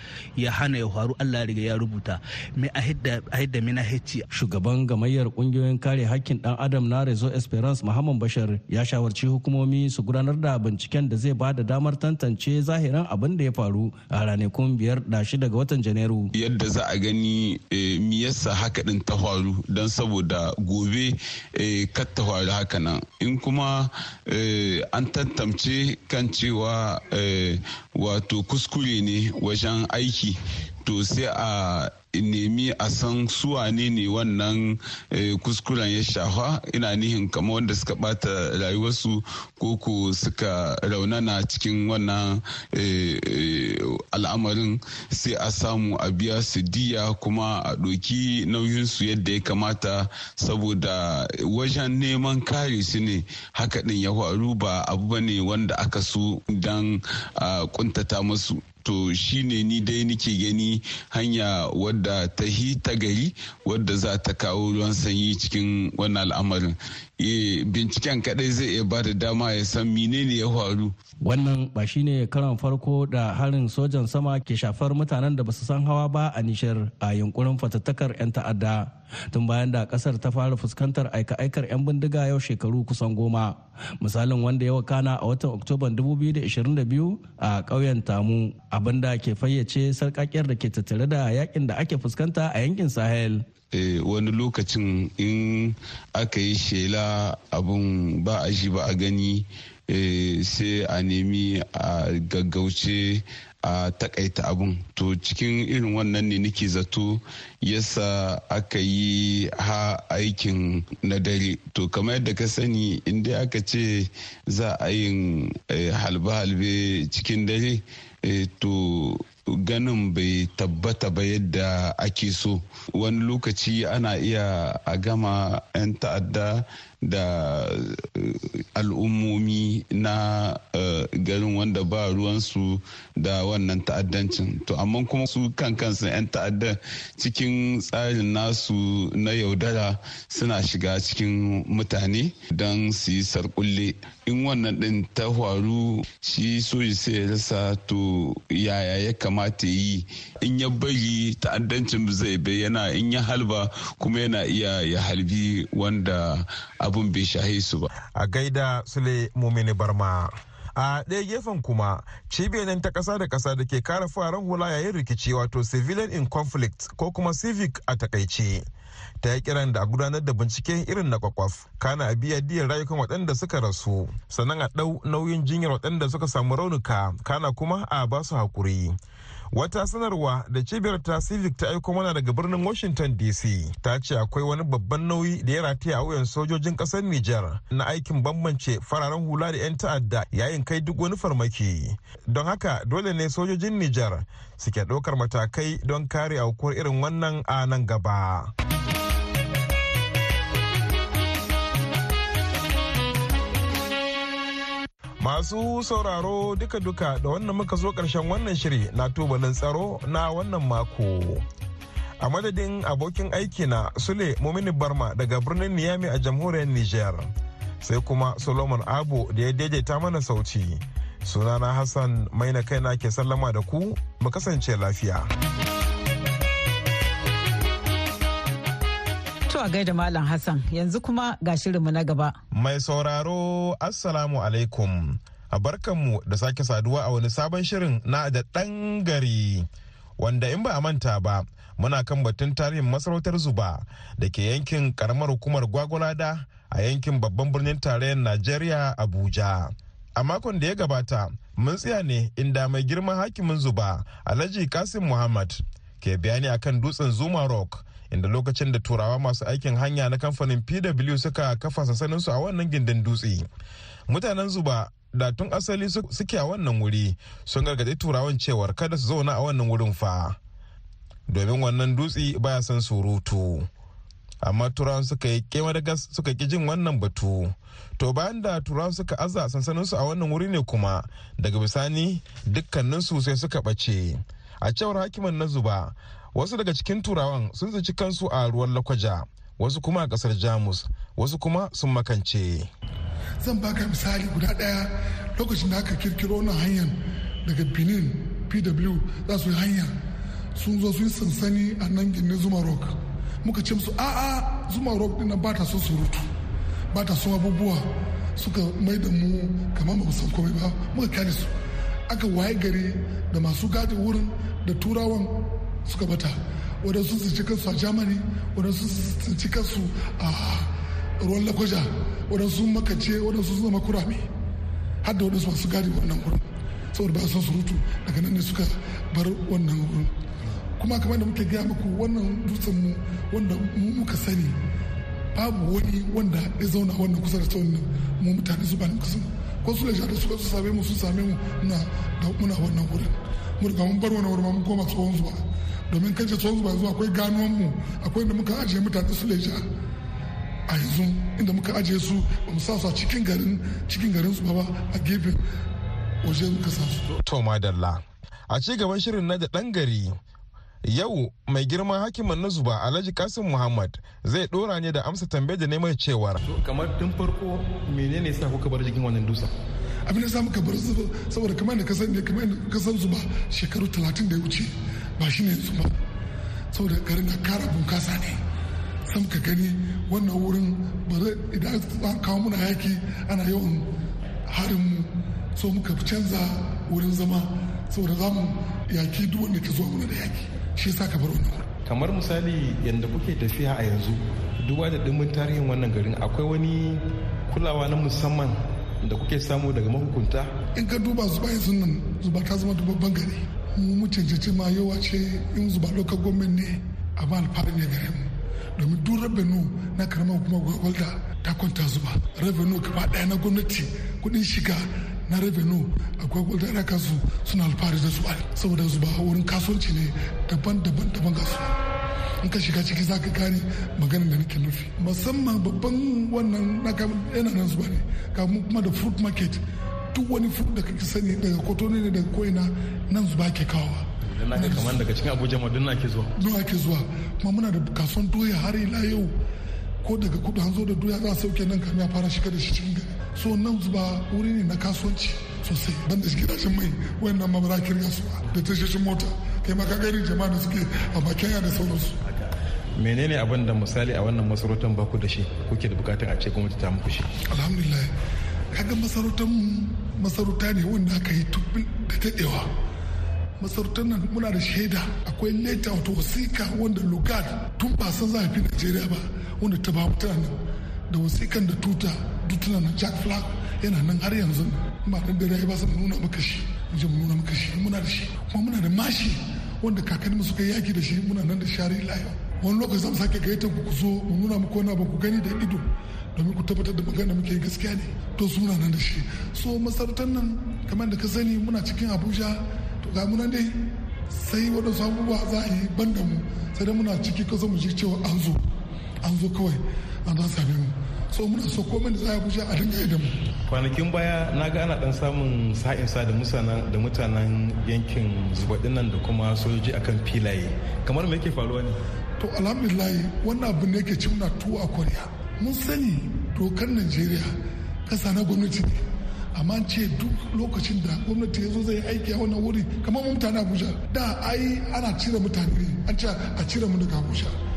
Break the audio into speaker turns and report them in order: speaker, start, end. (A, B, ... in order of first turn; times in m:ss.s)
0:00.4-0:04.2 A
0:04.3-0:16.3 B
0:16.3-1:10.9 C
1:11.2-1:33.5 B
1:33.7-2:37.9 C
2:38.2-2:48.6 D
2:49.2-2:58.9 D
2:59.5-3:18.5 D
3:25.2-3:31.4 D
3:32.2-3:45.3 D
3:49.5-3:52.4 E
3:52.5-3:59.7 D
4:00.2-4:23.4 D
4:24.1-4:30.4 D
4:31.3-4:33.7 D
4:34.4-4:52.7 D
4:53.4-4:59.9 F
5:00.6-5:06.3 F
5:06.9-5:11.5 F
5:12.1-5:24.3 F
5:25.0-5:30.1 F
5:30.8-5:34.6 F
5:35.3-5:49.6 F
5:50.7-5:55.4 F
5:56.2-5:57.1 F
5:57.2-6:00.1 D
6:00.8-6:06.4 D
6:06.4-6:09.5 G
6:10.1-6:15.9 F
6:16.7-6:18.4 F
6:19.0-6:23.9 F
6:24.5-6:31.7 F
6:31.8-6:40.5 G
6:40.7-7:01.8 F
7:02.4-7:15.0 F
7:14.4-7:16.3 G
7:16.4-7:19.3 F
7:20.0-7:32.2 F
7:33.0-7:37.3 G
7:37.5-7:38.1 F
7:38.7-7:42.7 F
7:43.6-7:50.6 F
7:51.1-8:18.6 F
8:19.2-8:23.3 F
8:23.7-8:32.0 G
8:32.4-8:37.5 F
8:38.1-8:39.0 F
8:39.5-8:47.5 F